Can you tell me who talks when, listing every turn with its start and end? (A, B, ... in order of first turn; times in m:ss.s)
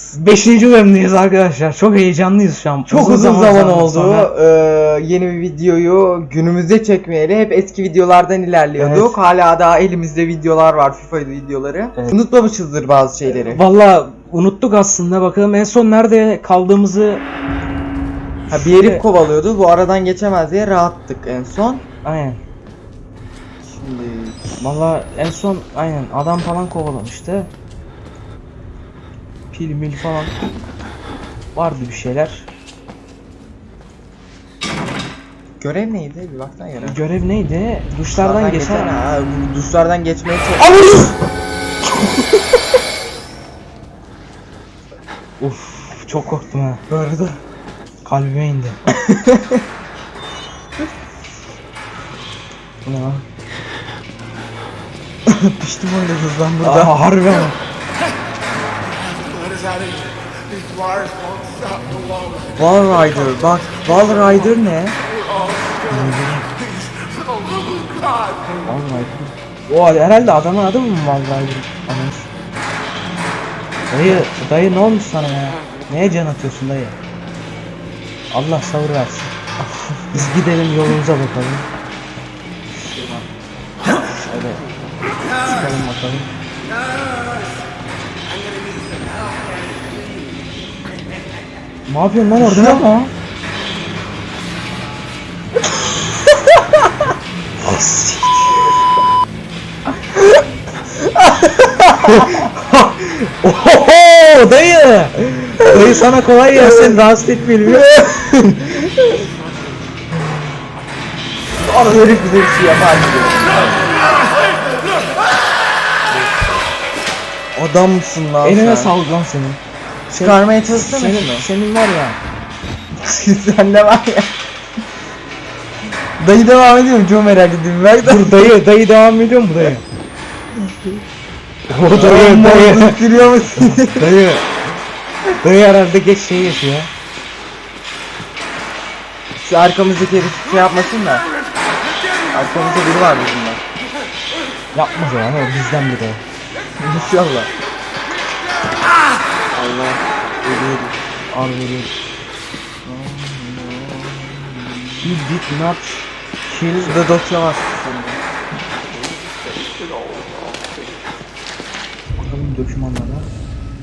0:00.1-0:04.3 A
0:02.9-0:13.6 B
0:08.8-0:09.2 A
0:13.4-0:17.2 A
0:18.5-0:19.0 A
0:18.5-0:21.8 B
0:22.0-0:22.4 A
0:23.7-0:24.6 B
0:24.6-0:27.5 A
0:29.5-0:30.4 A
0:31.6-0:32.5 A
0:35.6-0:37.0 B
0:36.8-0:38.9 A
0:38.1-0:41.1 B
0:45.4-0:46.8 A
0:46.9-0:47.4 B
0:48.0-0:48.8 A
0:48.9-0:49.6 B
0:52.8-0:53.2 A
0:55.3-0:57.0 B
0:56.6-0:57.6 A
0:59.2-1:02.4 C
1:02.5-1:05.0 B
1:05.3-1:05.9 C
1:05.9-1:06.5 A
1:06.8-1:08.4 C
1:08.6-1:12.3 A
1:13.9-1:17.0 A
1:18.3-1:19.4 A
1:19.6-1:20.3 B
1:20.1-1:21.7 A
1:22.8-1:23.3 B
1:24.3-1:24.7 A
1:25.4-1:26.3 A
1:31.9-1:32.9 A
1:32.4-1:33.1 B
1:37.6-1:38.7 A
1:41.0-1:42.5 B
1:42.0-1:48.1 A
1:47.8-1:49.3 B
1:51.6-1:53.9 B
1:57.6-1:58.9 B
1:58.4-2:02.2 A
2:00.1-2:01.5 B
2:03.0-2:04.3 B
2:06.2-2:08.5 B
2:08.0-2:09.8 A
2:10.6-2:11.0 B
2:11.7-2:14.5 A
2:11.9-2:14.1 B
2:15.4-2:16.9 A
2:19.4-2:21.3 B
2:22.3-2:23.6 B
2:24.7-2:26.2 A
2:26.8-2:27.5 B
2:29.5-2:31.0 B
2:31.3-2:31.9 A
2:32.8-2:35.2 B
2:35.0-2:37.2 A
2:36.7-2:38.2 B
2:38.9-2:41.2 C
2:42.2-2:43.3 A